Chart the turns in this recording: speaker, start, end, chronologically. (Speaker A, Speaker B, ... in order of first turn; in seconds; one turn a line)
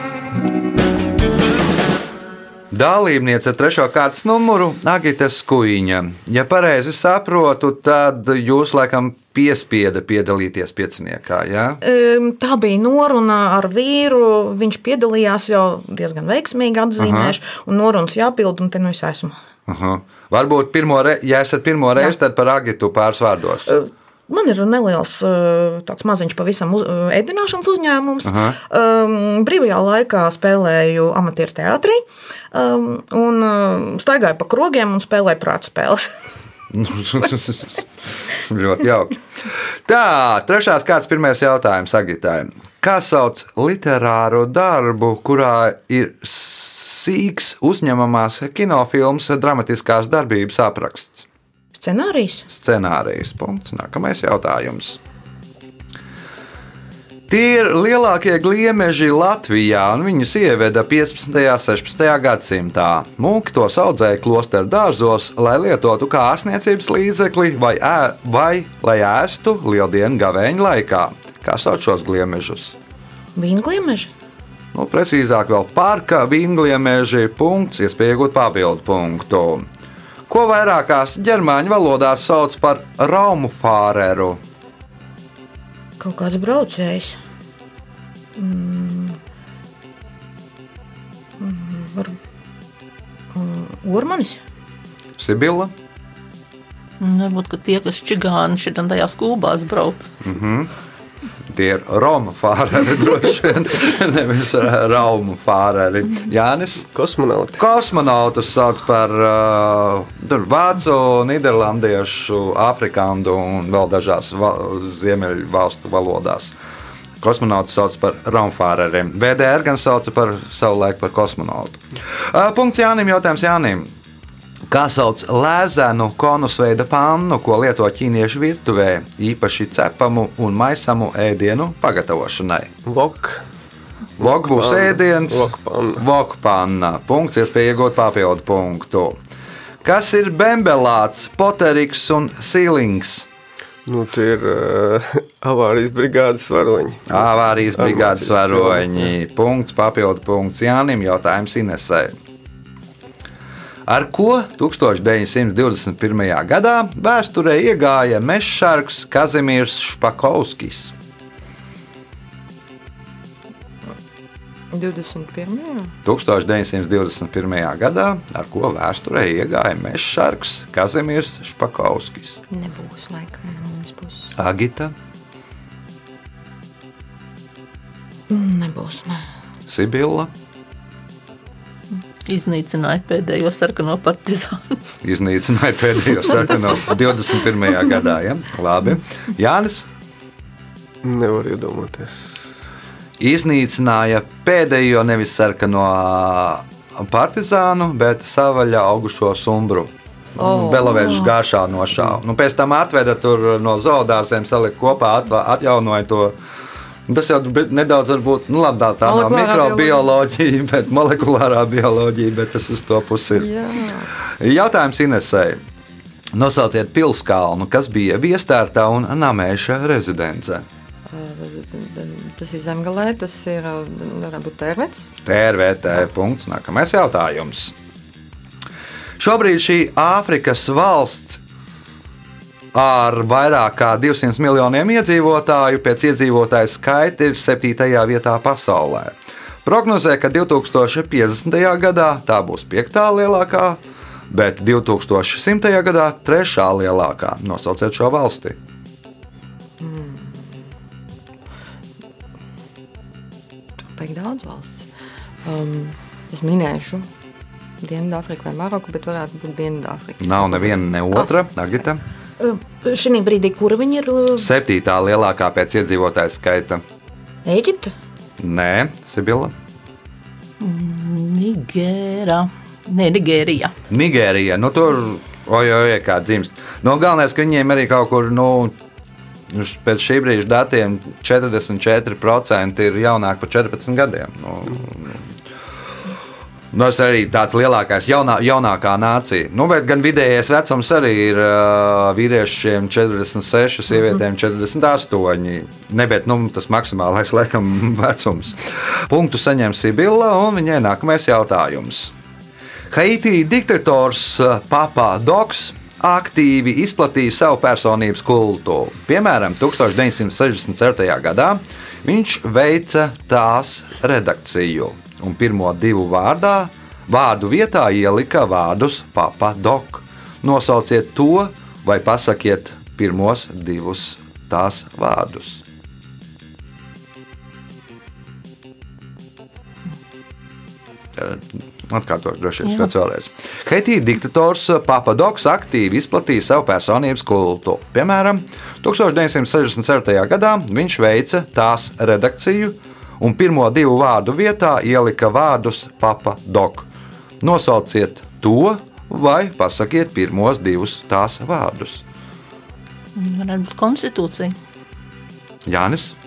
Speaker A: 2.7-11.8
Speaker B: 11.8-19.4
Speaker A: 17.0-17.3
Speaker A: 19.7-23.7
Speaker B: 23.7-36.1
Speaker A: 28.2-28.6
Speaker A: 36.7-39.2
Speaker A: 39.9-51.2
Speaker B: 51.7-52.5
Speaker A: 52.5-55.0
Speaker A: 57.3-72.8
Speaker B: 73.3-74.1
Speaker A: 74.7-79.6
Speaker A: 80.3-84.4
Speaker B: 86.0-87.2
Speaker B: 88.3-89.2
Speaker B: 91.4-92.2
Speaker B: 93.3-94.4
Speaker A: 95.2-95.7
Speaker C: 97.0-100.1
Speaker A: 100.2-100.7
Speaker A: 101.5-106.8
Speaker D: 106.9-107.6
Speaker A: 107.6-116.5
Speaker A: 117.2-123.9
Speaker A: 124.7-132.7
Speaker D: 132.8-133.4
Speaker A: 134.2-139.2
Speaker D: 134.2-136.0
Speaker A: 139.8-143.3
Speaker D: 143.8-149.1
Speaker A: 147.1-152.1
Speaker A: 153.9-160.9
Speaker E: 164.7-165.9
Speaker A: 166.0-172.4
Speaker E: 172.5-174.3
Speaker A: 174.3-174.9
Speaker B: 178.3-179.2
Speaker A: 179.7-180.3
Speaker C: 181.9-184.8
Speaker A: 185.0-189.9
Speaker D: 191.0-192.5
Speaker A: 193.2-206.3
Speaker E: 200.4-201.3
Speaker A: 207.1-213.5
Speaker E: 209.0-210.1
Speaker E: 213.3-214.1
Speaker A: 214.4-215.6
Speaker A: 216.3-220.6
Speaker E: 221.1-225.1
Speaker A: 225.2-227.7
Speaker A: 229.2-231.4
Speaker A: 232.7-248.6
Speaker E: 249.8-250.6
Speaker E: 253.8-254.9
Speaker E: 255.4-257.1
Speaker E: 257.8-261.3
Speaker A: 260.2-262.0
Speaker B: 262.4-264.5
Speaker A: 264.4-266.8
Speaker B: 267.4-267.9
Speaker A: 268.4-269.5
Speaker C: 270.6-273.7
Speaker A: 273.9-278.7
Speaker A: 279.5-285.2
Speaker A: 286.7-302.1
Speaker A: 302.9-325.6
Speaker A: 331.1-346.9
Speaker A: 347.4-352.0
Speaker C: 353.1-354.5
Speaker A: 355.6-356.1